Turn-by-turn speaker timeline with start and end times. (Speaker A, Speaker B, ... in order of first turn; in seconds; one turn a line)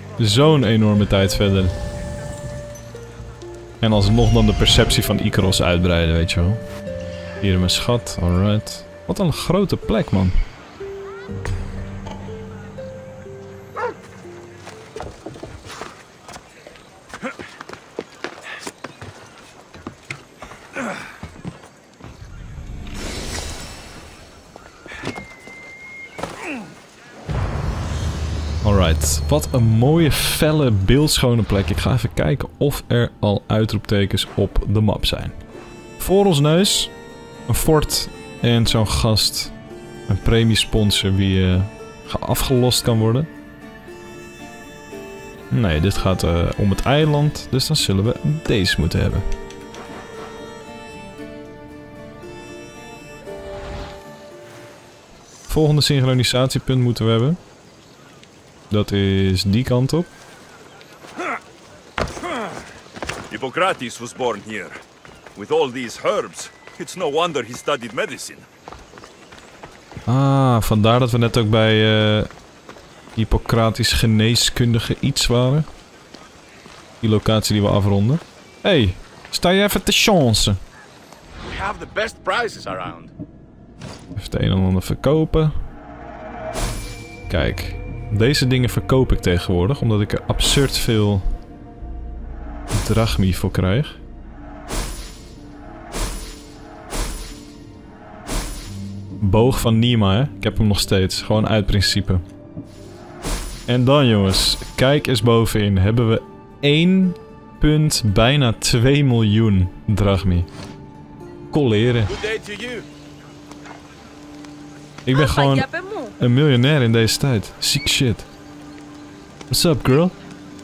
Speaker A: 0.1-1.7
Speaker A: 3.8-6.6
Speaker A: 7.4-10.4
Speaker A: 28.6-35.4
Speaker A: 36.0-36.9
Speaker A: 37.5-39.5
Speaker A: 40.1-43.3
Speaker A: 45.5-49.2
Speaker A: 55.5-57.4
Speaker A: 58.7-60.1
Speaker B: 63.3-64.8
Speaker B: 65.3-68.5
Speaker A: 70.0-72.3
Speaker A: 73.1-75.7
Speaker A: 77.0-80.6
Speaker C: 81.4-83.1
Speaker A: 84.1-85.5
Speaker A: 87.3-91.2
Speaker A: 92.7-94.0
Speaker A: 99.2-102.2
Speaker A: 103.7-110.5
Speaker A: 111.5-112.1
Speaker C: 112.0-112.8
Speaker A: 115.0-118.3
Speaker A: 119.5-120.2